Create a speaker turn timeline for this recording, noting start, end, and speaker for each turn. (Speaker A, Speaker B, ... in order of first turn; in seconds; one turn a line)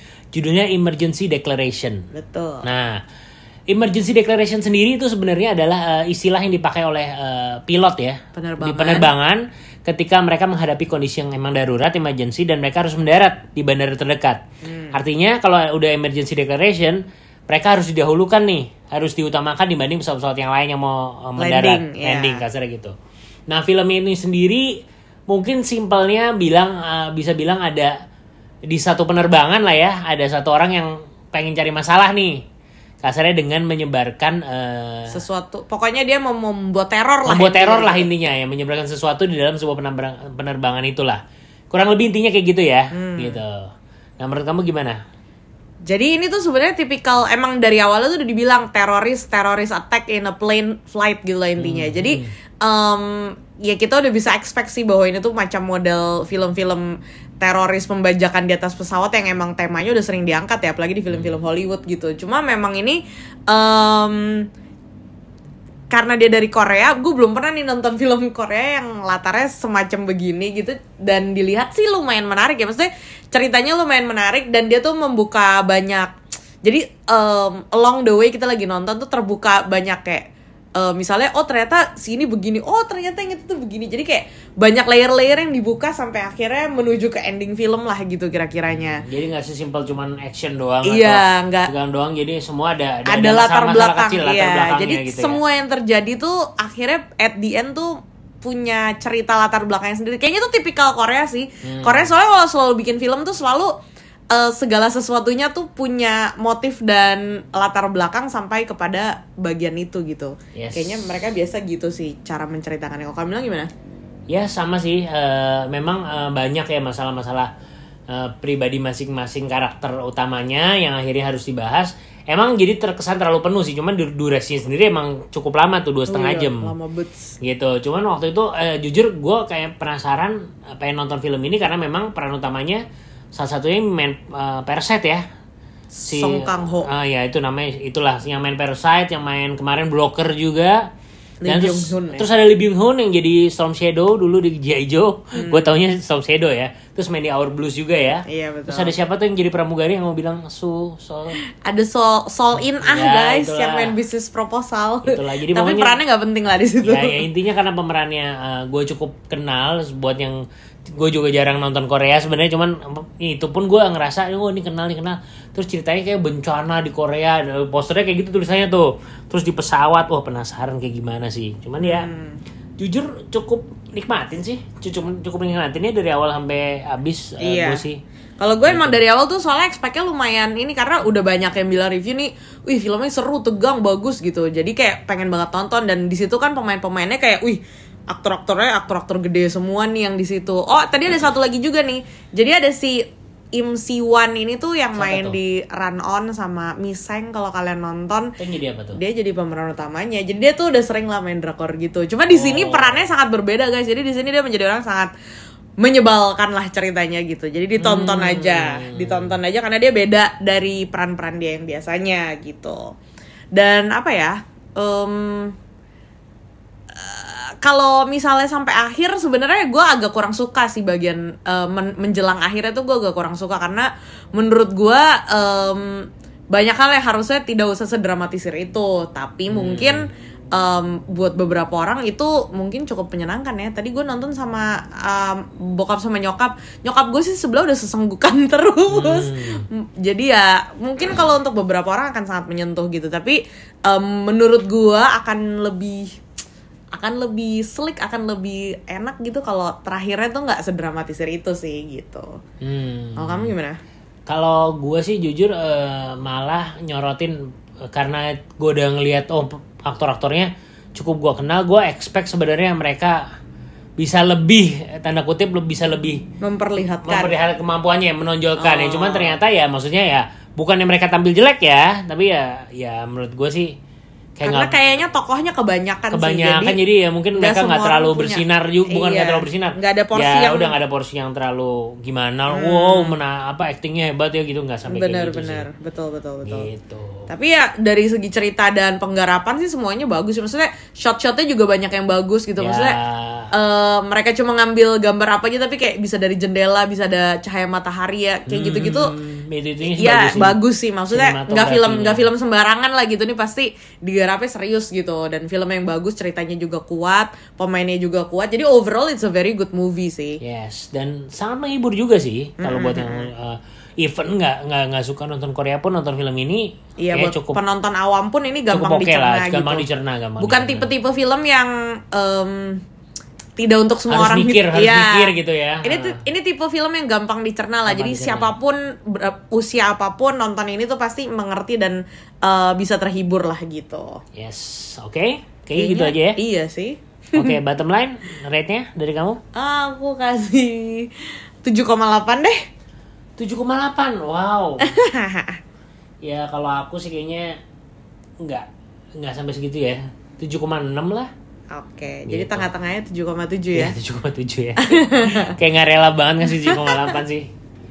Speaker A: 0.3-2.0
Speaker B: 2.1-2.6
Speaker A: 2.6-3.0
Speaker A: 3.7-14.4
Speaker B: 8.3-9.1
Speaker B: 14.6-15.0
Speaker A: 14.9-22.9
Speaker B: 21.4-22.4
Speaker A: 23.5-24.7
Speaker A: 25.3-27.9
Speaker A: 28.7-32.4
Speaker A: 33.0-35.2
Speaker B: 35.1-38.1
Speaker A: 37.2-45.0
Speaker B: 42.9-43.4
Speaker B: 45.9-64.5
Speaker A: 51.6-52.3
Speaker A: 61.1-61.4
Speaker B: 65.9-89.0
Speaker A: 89.0-95.4
Speaker B: 90.8-91.7
Speaker B: 93.0-103.7
Speaker A: 101.6-102.1
Speaker B: 104.3-113.7
Speaker A: 110.5-111.1
Speaker A: 114.3-117.5
Speaker A: 118.1-126.7
Speaker B: 126.1-127.3
Speaker A: 127.4-135.2
Speaker B: 135.9-136.9
Speaker A: 136.1-140.9
Speaker B: 141.4-142.2
Speaker A: 141.4-151.4
Speaker B: 145.3-145.7
Speaker B: 148.3-148.9
Speaker B: 151.6-157.2
Speaker A: 152.8-153.9
Speaker A: 155.0-156.0
Speaker A: 156.8-160.4
Speaker A: 160.9-172.1
Speaker B: 171.8-172.4
Speaker A: 172.8-178.0
Speaker B: 177.4-177.8
Speaker B: 178.4-193.0
Speaker A: 178.6-179.0
Speaker B: 193.5-198.3
Speaker A: 194.9-195.4
Speaker A: 198.4-199.0
Speaker B: 198.9-205.1
Speaker A: 202.3-203.1
Speaker B: 205.8-212.9
Speaker A: 207.8-209.3
Speaker B: 213.5-215.5
Speaker B: 216.9-225.9
Speaker B: 226.5-246.1
Speaker A: 229.5-230.0
Speaker A: 238.9-239.6
Speaker B: 246.9-252.3
Speaker A: 252.6-253.5
Speaker B: 253.2-253.8
Speaker A: 254.3-257.4
Speaker A: 257.9-263.2
Speaker A: 264.0-266.2
Speaker B: 266.4-267.3
Speaker A: 267.0-273.7
Speaker B: 268.6-269.4
Speaker A: 274.4-274.9
Speaker B: 274.4-276.8
Speaker A: 276.1-285.7
Speaker B: 277.3-280.7
Speaker B: 282.5-283.2
Speaker B: 284.9-286.7
Speaker A: 286.4-287.3
Speaker B: 287.3-293.0
Speaker A: 292.6-293.5
Speaker B: 293.5-299.1
Speaker A: 298.5-300.6
Speaker B: 299.8-310.4
Speaker A: 301.1-302.3
Speaker A: 310.4-317.6
Speaker B: 312.6-313.3
Speaker B: 317.0-319.9
Speaker A: 318.7-320.9
Speaker B: 320.4-322.8
Speaker B: 323.6-334.2
Speaker A: 324.1-326.2
Speaker A: 327.9-328.5
Speaker A: 334.4-336.4
Speaker B: 335.8-337.6
Speaker A: 337.3-339.4
Speaker B: 339.5-342.6
Speaker A: 343.4-344.9
Speaker B: 344.8-345.6
Speaker A: 346.2-347.5
Speaker A: 348.4-348.7
Speaker A: 349.2-351.3
Speaker B: 351.7-353.9
Speaker A: 352.3-352.6
Speaker A: 353.7-357.5
Speaker B: 354.8-355.5
Speaker B: 356.5-357.1